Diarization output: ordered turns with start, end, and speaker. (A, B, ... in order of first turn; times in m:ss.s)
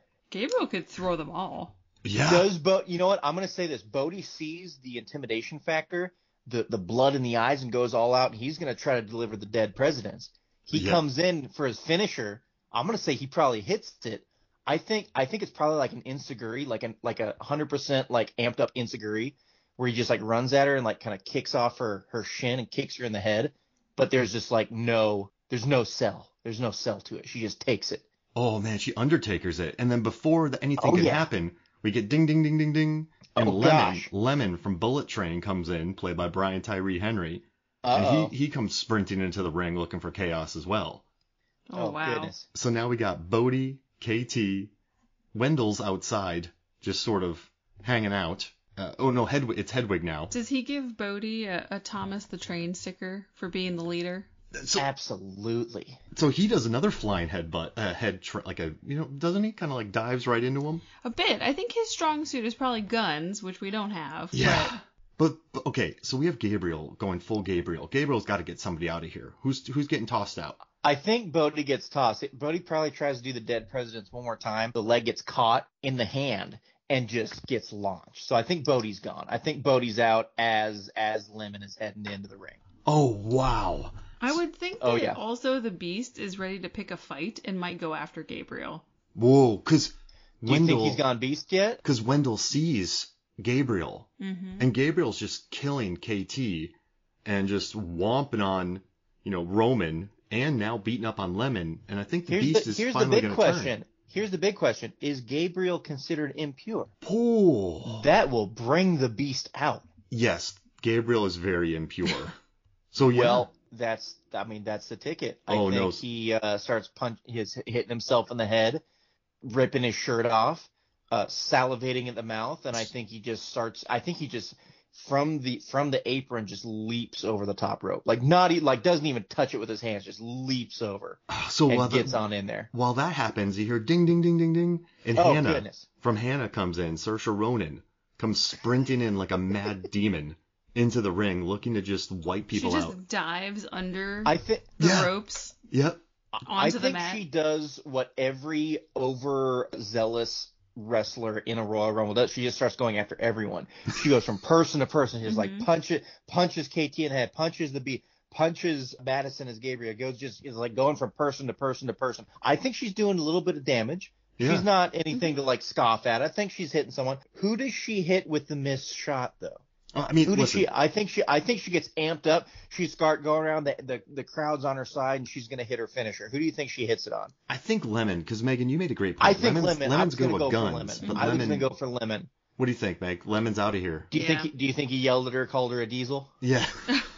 0:00.3-0:01.7 A
0:02.0-0:02.5 B
0:02.2-0:28.0 C
0:10.7-0:11.0 B
0:28.3-0:41.0 B
0:30.8-0:31.3 C
0:33.3-0:34.1 C
0:37.8-0:38.3 C
0:41.7-0:42.3 A
0:41.8-0:42.4 C
0:42.5-0:44.7 B
0:45.3-0:50.3 B
0:50.3-0:54.3 A
0:54.5-0:54.8 B
0:54.8-0:56.0 C
0:56.1-1:00.8 B
1:01.0-1:04.7 A
1:04.3-1:10.6 B
1:10.8-1:22.6 C
1:22.8-1:23.9 B
1:24.2-1:28.8 A
1:24.8-1:25.2 C
1:29.2-1:31.0 B
1:30.4-1:31.8 C
1:31.8-1:36.7 B
1:34.2-1:34.7 A
1:37.2-1:43.8 B
1:42.3-1:46.9 C
1:47.0-1:48.1 B
1:47.9-1:49.8 C
1:50.1-1:52.4 B
1:52.9-1:53.5 B
1:53.1-1:58.8 C
1:55.5-1:56.0 B
1:59.4-2:12.7 C
2:11.3-2:12.2 B
2:12.7-2:23.0 B
2:15.1-2:15.8 C
2:22.5-2:25.5 A
2:24.2-2:24.7 C
2:24.8-2:25.1 B
2:25.7-2:26.0 B
2:26.4-2:49.6 C
2:26.5-2:27.2 A
2:35.3-2:35.7 A
2:44.4-2:44.7 B
2:49.9-2:50.7 B
2:50.2-2:57.3 C
2:57.5-3:01.7 B
2:59.2-3:02.3 C
3:02.6-3:04.1 B
3:04.1-3:06.3 C
3:04.1-3:04.5 A
3:06.4-3:07.0 B